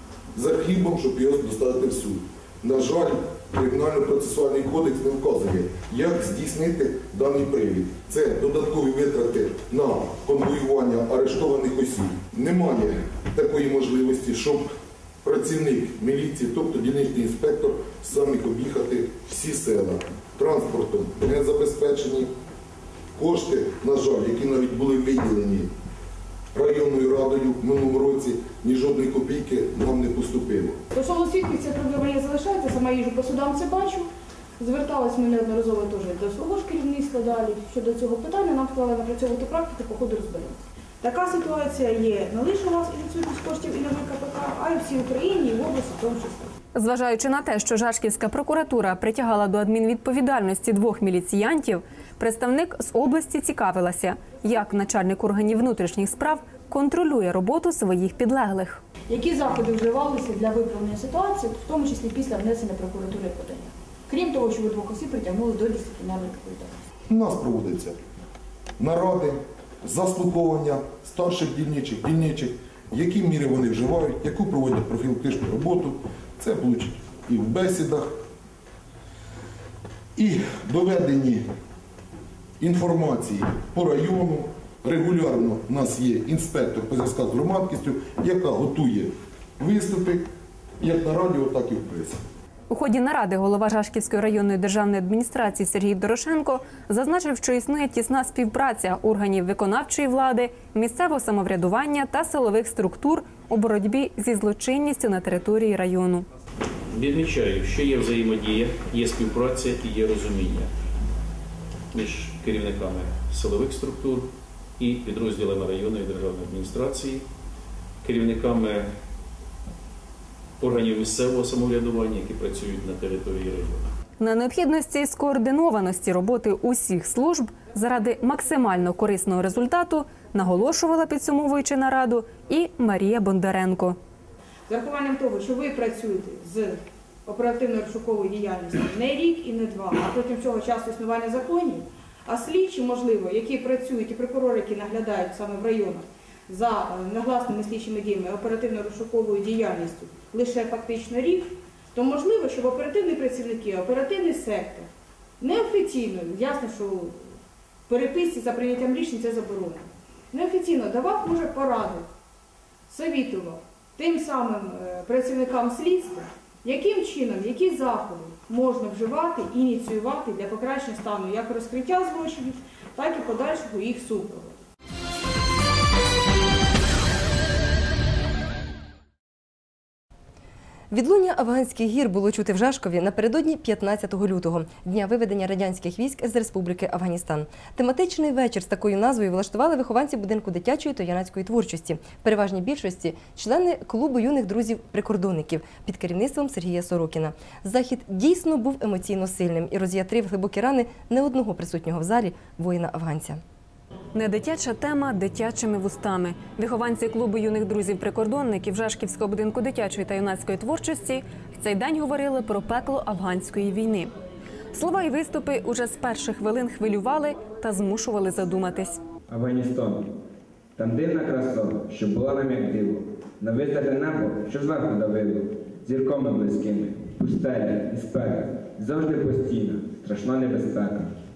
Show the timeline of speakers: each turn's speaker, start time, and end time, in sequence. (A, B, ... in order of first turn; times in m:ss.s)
0:00.3-0:14.7 A
0:15.2-0:22.3 A
0:23.2-0:25.7 A
0:26.5-0:30.8 A
0:30.9-0:34.1 B
0:34.6-0:46.5 B
0:46.7-0:58.8 C
0:59.1-1:06.7 B
1:07.1-1:08.0 A
1:08.8-1:18.1 A
1:20.2-1:21.4 A
1:22.6-1:30.3 A
1:30.8-1:32.2 A
1:32.7-1:46.2 C
1:46.9-1:50.7 D
1:51.9-1:57.2 D
1:58.0-1:58.9 D
2:00.6-2:03.9 D
2:04.2-2:14.0 C
2:14.7-2:34.9 B
2:35.4-2:37.3 B
2:37.9-2:42.1 B
2:42.9-2:54.6 B
3:00.9-3:23.4 E
3:24.1-3:34.1 C
3:34.7-3:39.0 C
3:39.3-3:40.1 F
3:40.8-3:51.2 F